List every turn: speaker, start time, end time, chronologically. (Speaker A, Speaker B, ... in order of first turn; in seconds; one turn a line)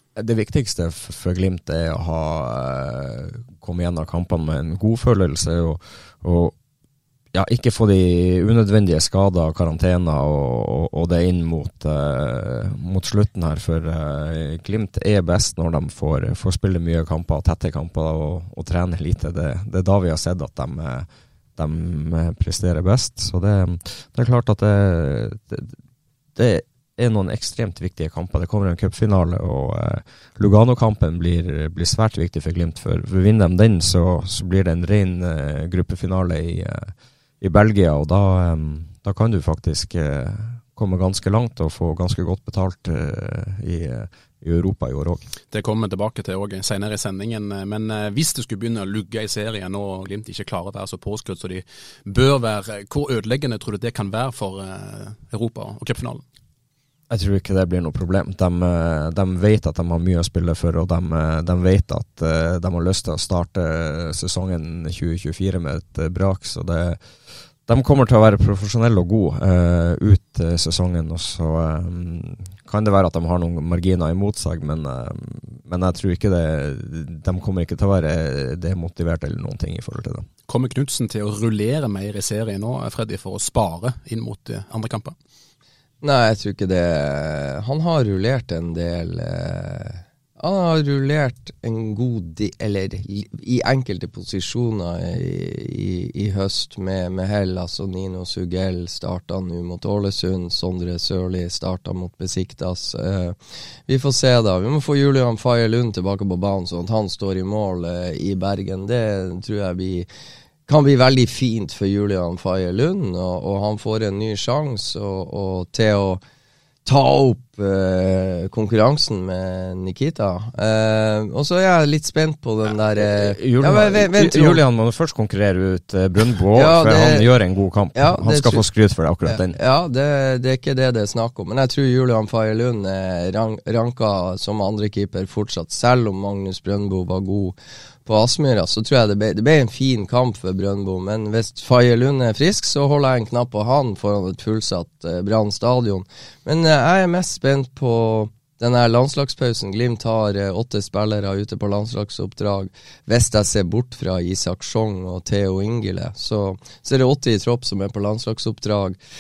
Speaker A: 0.2-6.5
Speaker A: 7.3-25.7
Speaker A: 26.4-45.2
Speaker B: 45.5-56.2
Speaker A: 57.1-67.0
Speaker A: 67.7-80.3
Speaker B: 80.5-85.2
Speaker C: 86.0-103.3
Speaker C: 103.9-110.1
Speaker C: 110.7-116.2
Speaker C: 116.8-124.6
Speaker A: 123.0-129.6
Speaker C: 126.5-127.3
Speaker C: 128.0-128.7
Speaker C: 129.3-159.0